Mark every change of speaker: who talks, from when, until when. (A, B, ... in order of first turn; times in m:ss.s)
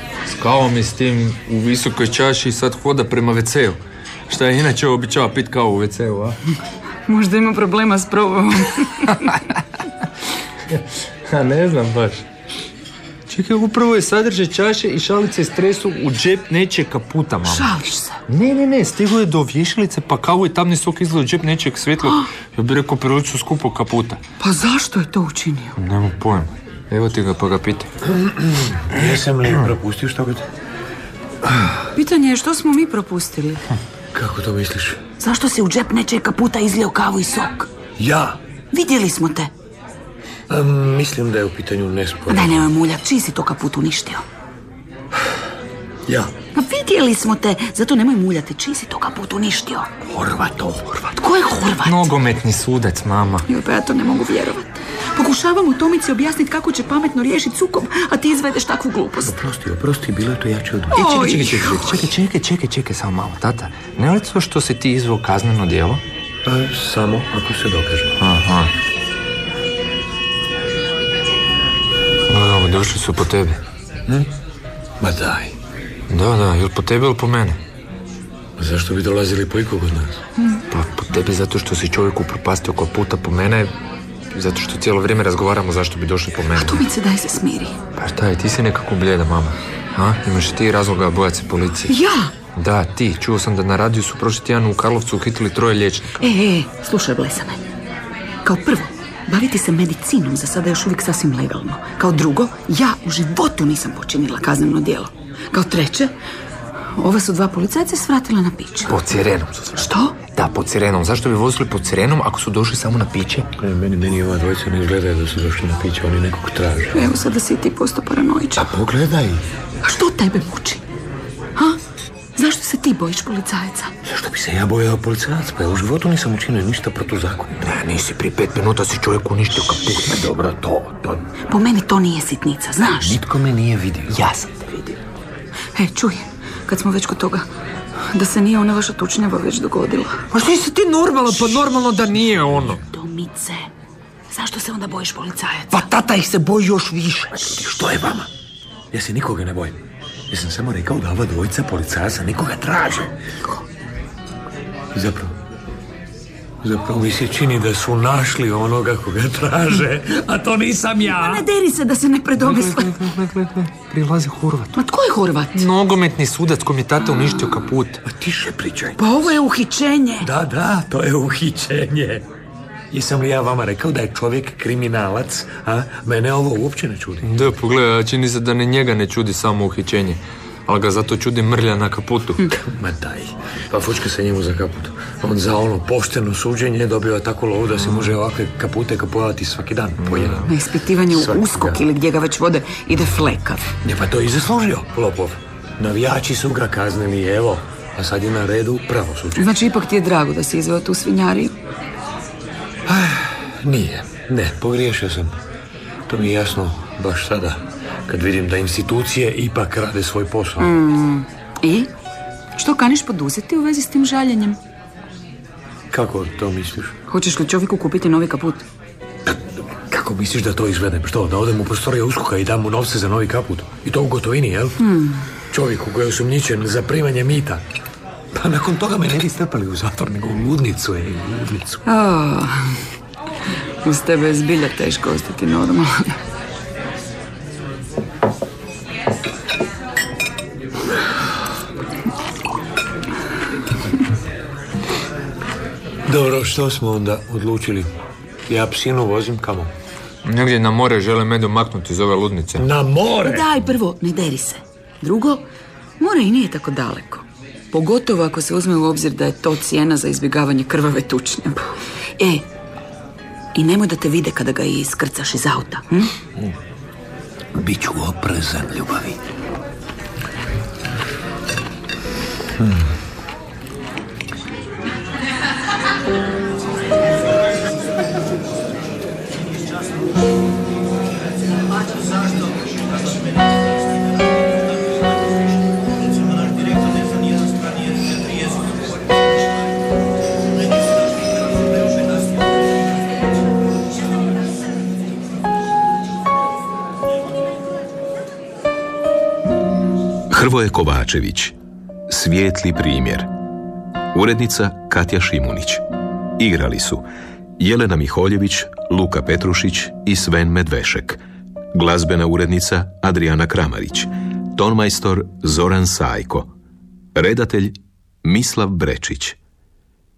0:00.2-0:06.4 A
0:07.1-0:09.3 B
0:10.7-0:12.2 A
0:13.3-0:17.7 A
0:17.4-0:18.2 B
0:18.3-0:24.2 A
0:24.4-0:25.8 B
0:25.8-0:27.9 A
0:28.1-0:30.4 C
0:31.9-0:33.6 B
0:34.1-0:35.0 C
0:35.2-0:37.7 B
0:38.0-0:38.4 C
0:38.7-0:39.5 B
0:40.5-0:42.7 C
0:42.3-0:44.2 B
0:46.1-0:46.3 C
0:46.5-0:49.9 B
0:50.0-0:51.0 C
0:51.2-0:52.1 B
0:51.8-0:53.5 A
0:53.5-0:59.4 B
0:59.2-1:01.8 C
1:00.9-1:02.0 B
1:01.0-1:06.0 A
1:06.4-1:08.2 C
1:08.2-1:08.7 A
1:12.3-1:13.6 A
1:15.0-1:15.5 C
1:16.1-1:17.6 A
1:18.6-1:20.2 C
1:20.7-1:23.7 A
1:24.3-1:26.8 A
1:26.5-1:27.7 B
1:28.0-1:31.9 A
1:31.9-1:32.3 B
1:32.6-1:36.3 A
1:36.2-1:37.6 B
1:38.4-1:46.1 B
1:47.0-1:49.0 B
1:48.9-1:53.5 A
1:49.8-1:50.2 B
1:53.6-1:57.1 C
1:56.9-1:58.7 B
1:58.6-1:59.4 C
1:59.8-2:00.8 B
2:02.4-2:03.9 B
2:04.0-2:07.7 C
2:07.6-2:10.2 A
2:10.0-2:11.2 C
2:11.5-2:13.2 B
2:13.0-2:14.2 C
2:14.1-2:15.0 A
2:15.7-2:17.4 B
2:18.1-2:20.2 B
2:20.3-2:22.8 A
2:22.8-2:23.7 B
2:24.3-2:25.9 B
2:25.7-2:27.6 A
2:27.5-2:28.3 C
2:28.9-2:33.1 C
2:34.9-2:35.4 C
2:36.6-2:41.4 C
2:41.0-2:43.0 B
2:42.4-2:44.7 A
2:44.8-2:45.6 B
2:45.5-2:48.0 A
2:48.0-2:49.3 C
2:49.0-2:50.3 B
2:50.2-2:52.3 C
2:52.9-2:57.3 C
2:57.2-3:02.5 A
3:02.5-3:10.5 C
3:10.0-3:10.5 A
3:10.4-3:13.6 B
3:11.1-3:11.8 C
3:13.8-3:19.5 C
3:19.4-3:21.5 B
3:22.8-3:25.4 C
3:26.1-3:30.7 C
3:30.6-3:31.9 B
3:32.6-3:34.6 B
3:35.9-3:36.9 C
3:37.1-3:38.6 B
3:39.9-3:44.8 C
3:44.8-3:45.2 B
3:45.5-3:47.6 C
3:48.3-3:51.8 C
3:51.8-3:52.7 B
3:53.8-3:56.2 B
4:06.0-4:07.9 C
4:08.5-4:09.7 C
4:10.2-4:12.6 A
4:12.6-4:13.5 C
4:13.2-4:15.4 B
4:16.0-4:21.6 B
4:22.2-4:22.4 B
4:23.5-4:26.1 B
4:27.5-4:29.2 C
4:32.6-4:32.9 C
5:00.3-5:01.5 D
5:02.1-5:03.3 D
5:04.1-5:05.8 D
5:06.4-5:07.0 D
5:07.6-5:11.2 D
5:11.7-5:16.5 D
5:17.1-5:19.4 D